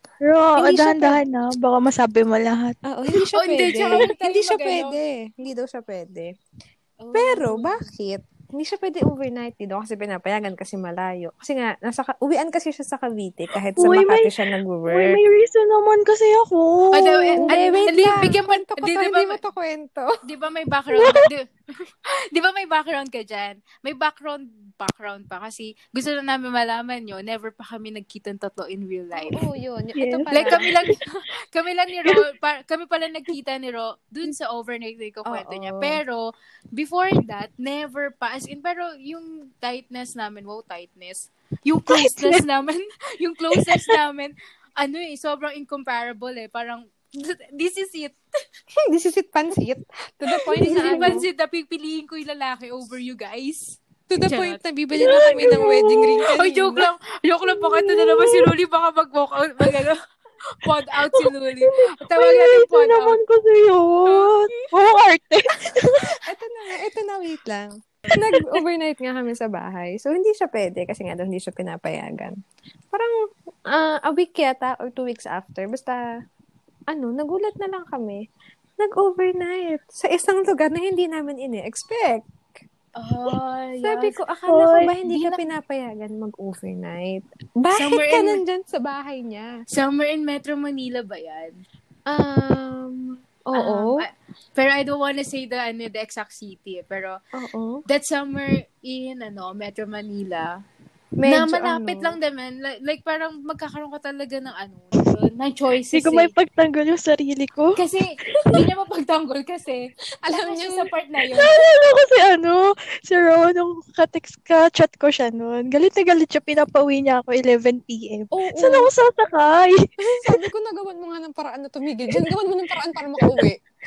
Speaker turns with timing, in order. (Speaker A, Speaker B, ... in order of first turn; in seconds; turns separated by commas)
Speaker A: 0.2-2.7, Speaker B: 0.6-1.2, Speaker B: 2.8-6.3, Speaker C: 3.4-5.0, Speaker C: 7.0-7.9, Speaker B: 7.1-15.2, Speaker A: 13.8-14.3, Speaker A: 14.9-17.8, Speaker C: 16.9-19.4, Speaker B: 17.4-20.1, Speaker C: 20.2-21.4, Speaker A: 20.9-21.2, Speaker C: 22.3-29.4, Speaker B: 29.2-30.7, Speaker A: 30.0-30.9, Speaker C: 30.3-48.2, Speaker B: 35.3-36.0, Speaker A: 41.9-42.4, Speaker A: 43.5-43.9, Speaker B: 48.9-51.2, Speaker C: 50.5-55.6, Speaker A: 50.6-51.1, Speaker B: 54.1-56.9, Speaker A: 55.0-56.3, Speaker C: 56.3-60.0, Speaker A: 57.5-58.5, Speaker C: 60.5-63.2, Speaker A: 62.1-66.2, Speaker C: 64.0-64.7, Speaker B: 66.2-72.3, Speaker A: 68.3-68.6, Speaker B: 73.7-76.0, Speaker B: 76.9-78.2, Speaker B: 78.8-82.2, Speaker C: 83.0-84.2, Speaker B: 83.8-89.5, Speaker A: 84.5-84.9, Speaker C: 85.1-85.4, Speaker C: 87.7-88.4, Speaker C: 89.7-91.5, Speaker B: 92.1-93.9, Speaker C: 93.5-97.2, Speaker B: 97.3-97.8, Speaker C: 97.9-100.5, Speaker B: 101.2-102.2, Speaker C: 101.2-106.3, Speaker A: 105.9-107.8, Speaker C: 107.8-111.5, Speaker B: 110.2-110.9, Speaker A: 111.4-120.4, Speaker B: 118.3-118.9, Speaker B: 120.0-123.6